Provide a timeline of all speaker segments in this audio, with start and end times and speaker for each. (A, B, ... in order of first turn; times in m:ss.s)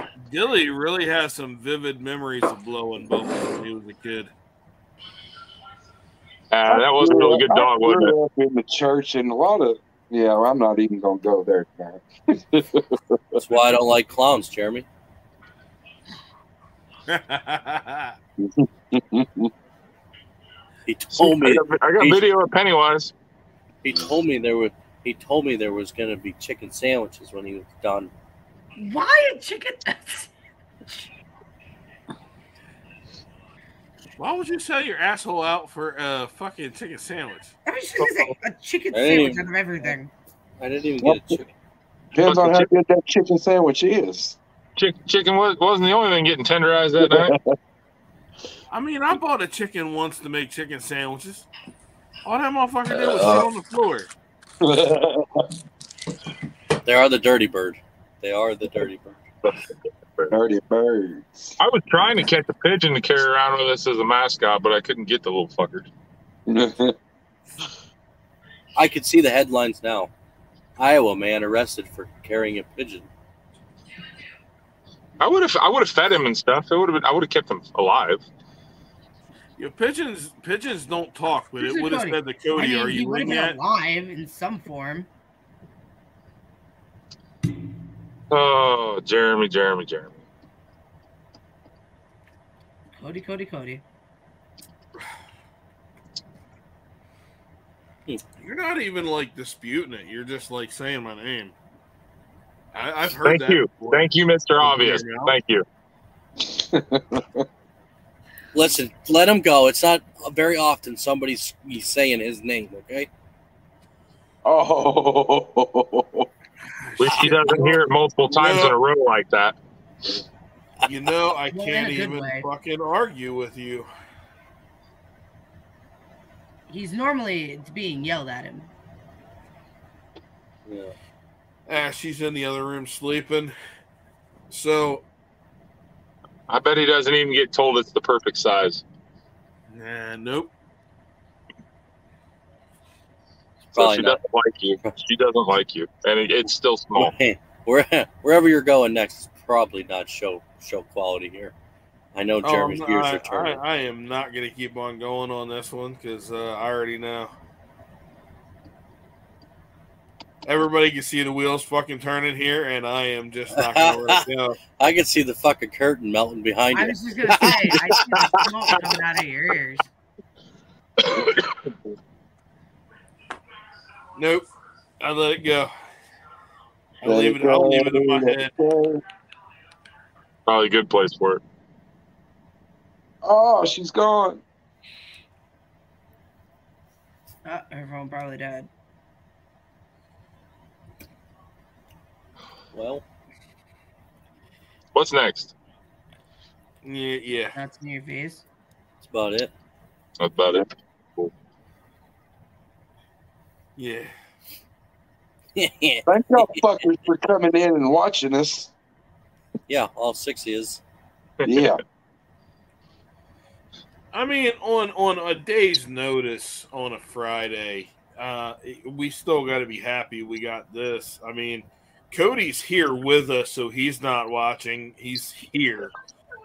0:00.2-0:04.3 A
0:06.5-0:08.1 B
0:06.7-0:13.4 C
0:13.4-0:14.8 D
0:17.1-0:18.2 A
0:18.4-0:19.5 C
0:20.9-0:22.2 D
0:21.1-0:23.1 B
0:23.8-0:28.1 D
0:28.8-0:30.3 E
0:34.2-0:37.5 A
0:37.6-0:40.1 E
0:38.9-0:39.4 D
0:40.6-0:41.5 D
0:41.0-0:41.4 C
0:42.1-0:44.4 C
0:42.2-0:42.7 B
0:44.8-0:47.3 B
0:47.0-0:47.5 C
0:48.7-0:51.5 A
0:52.2-0:54.1 A
0:52.9-0:53.5 C
0:54.6-0:55.5 C
0:56.8-0:59.2 D
1:00.3-1:01.6 C
1:01.6-1:05.9 B
1:06.5-1:06.9 C
1:08.8-1:10.1 D
1:10.8-1:13.1 D
1:15.2-1:18.2 B
1:19.6-1:23.6 A
1:21.6-1:25.1 E
1:28.3-1:30.2 B
1:33.0-1:33.8 E
1:38.4-1:41.5 A
1:42.7-1:45.4 A
1:43.2-1:45.6 B
1:46.4-1:47.4 C
1:48.5-1:53.1 D
1:54.4-1:56.3 C
1:56.8-1:58.8 A
1:57.0-1:59.6 B
2:00.8-2:03.9 A
2:01.5-2:02.5 E
2:06.7-2:08.7 E
2:10.7-2:10.9 D
2:11.7-2:13.5 A
2:14.5-2:15.0 A
2:16.5-2:18.8 B
2:19.7-2:20.5 A
2:23.7-2:24.2 D
2:23.7-2:27.1 B
2:26.9-2:31.5 D
2:32.1-2:33.6 D
2:32.4-2:37.3 A
2:40.4-2:44.6 A
2:43.5-2:44.2 D
2:44.8-2:47.9 D
2:46.7-2:49.9 E
2:51.0-2:51.4 B
2:54.2-2:54.4 A
2:55.0-2:55.7 A
2:57.0-2:58.5 A
2:57.0-2:59.0 C
3:00.4-3:01.4 B
3:03.2-3:04.4 C
3:07.4-3:08.7 E
3:12.7-3:13.0 D
3:14.9-3:15.5 B
3:16.8-3:17.6 A
3:17.5-3:18.4 E
3:19.0-3:19.5 D
3:20.2-3:21.3 B
3:23.8-3:24.1 A
3:25.6-3:26.6 D
3:26.0-3:28.7 C
3:29.7-3:30.8 D
3:31.4-3:31.7 B
3:31.4-3:31.8 C
3:34.1-3:45.9 A